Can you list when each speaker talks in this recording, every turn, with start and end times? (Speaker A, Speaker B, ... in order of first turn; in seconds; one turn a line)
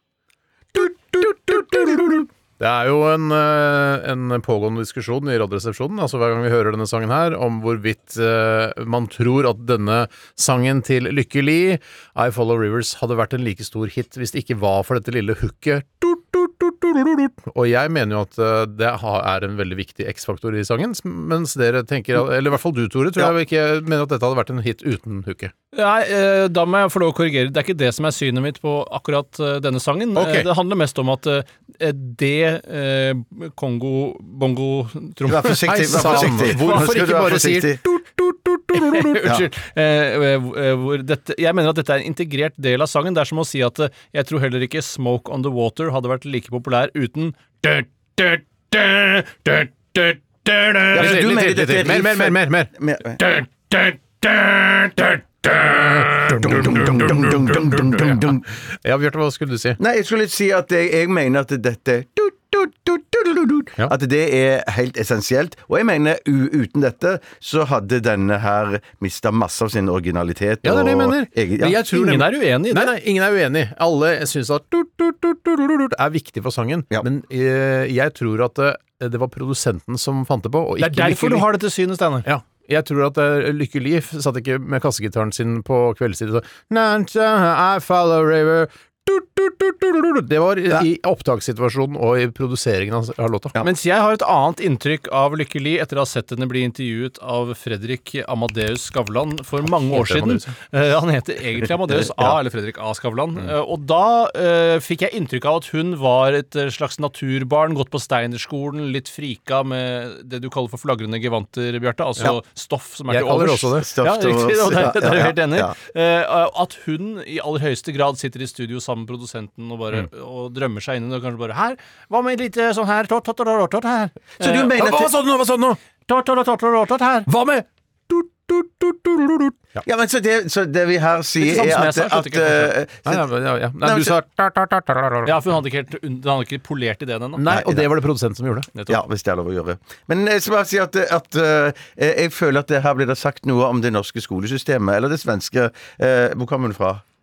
Speaker A: 0.8-25.5
Speaker B: 25.7-36.9
Speaker A: 30.2-30.5
Speaker C: 35.3-37.8
Speaker A: 35.6-39.4
Speaker B: 38.9-51.2
Speaker C: 50.9-53.2
Speaker A: 50.9-59.8
Speaker C: 56.2-58.5
Speaker C: 59.8-71.8
Speaker A: 70.6-81.5
Speaker B: 71.7-72.9
Speaker B: 80.8-82.3
Speaker A: 82.2-93.6
Speaker B: 93.6-124.5
Speaker A: 99.8-100.5
Speaker A: 113.1-113.9
Speaker C: 113.8-115.8
Speaker C: 124.4-125.1
Speaker A: 124.4-125.8
Speaker B: 126.1-127.3
Speaker A: 127.3-129.8
Speaker C: 129.8-133.2
Speaker B: 131.4-132.8
Speaker A: 133.1-135.3
Speaker C: 133.8-134.2
Speaker B: 135.2-137.5
Speaker A: 137.4-138.7
Speaker C: 137.5-137.9
Speaker B: 138.8-139.0
Speaker C: 138.9-147.0